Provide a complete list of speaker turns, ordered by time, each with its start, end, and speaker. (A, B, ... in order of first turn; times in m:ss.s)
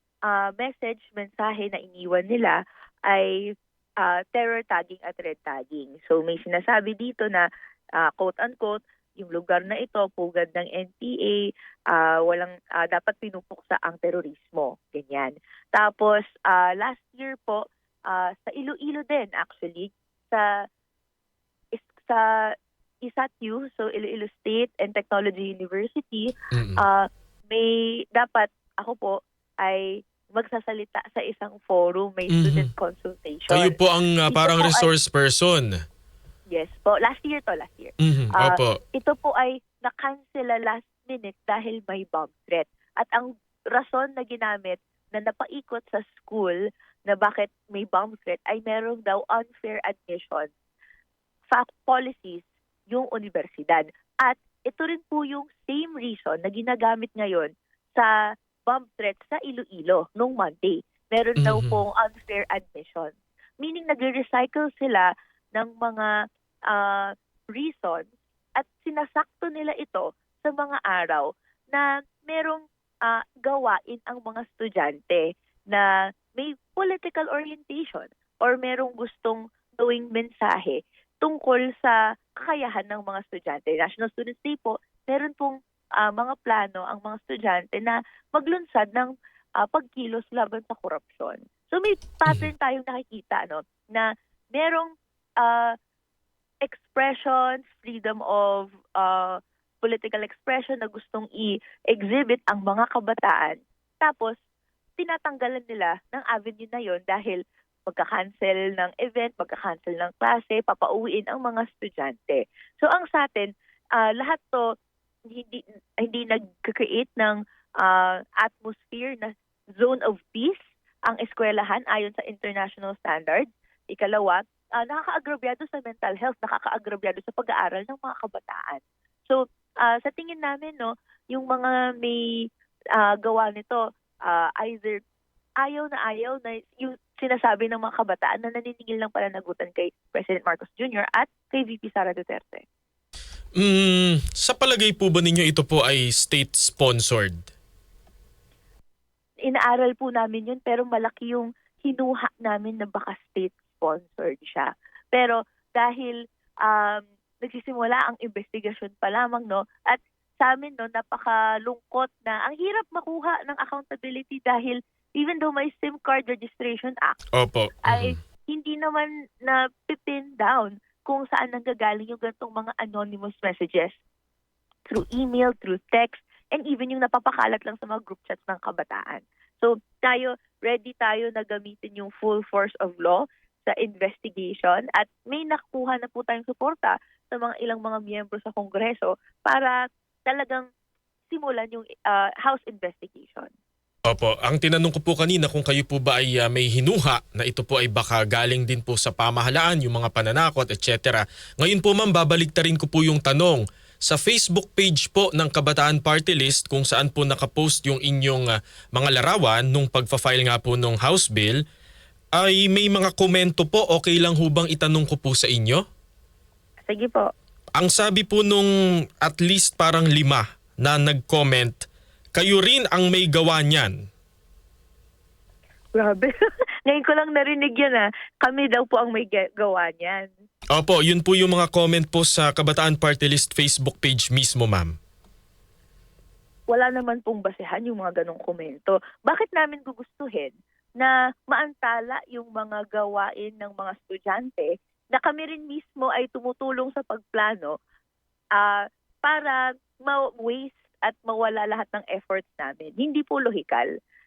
0:00.3-0:03.5 A
0:04.0-0:20.4 A
0:21.8-0:22.5 A
0:23.0-0:33.8 A
0:26.5-0:26.8 B
0:32.3-0:32.7 B
0:33.5-0:35.7 B
0:34.3-0:34.9 A
0:36.5-0:50.5 A
0:38.0-0:38.8 B
0:51.5-0:58.1 A
0:58.7-1:06.1 A
1:01.4-1:01.8 B
1:06.7-1:34.9 A
1:35.4-1:35.7 A
1:36.6-1:44.4 A
1:45.0-1:54.7 A
1:55.3-2:12.4 A
2:13.0-2:15.0 A
2:15.6-2:22.6 A
2:23.6-2:27.5 B
2:29.4-2:47.2 A
2:47.3-2:48.1 B
2:47.8-2:54.0 A
2:54.9-3:10.7 A
3:11.3-3:13.5 A
3:14.1-3:31.6 B
3:32.3-3:35.8 B
3:36.9-3:37.3 A
3:37.8-3:44.0 B
3:45.9-3:50.3 A
3:50.7-3:55.0 B
3:56.7-4:07.7 A
4:08.6-4:13.9 A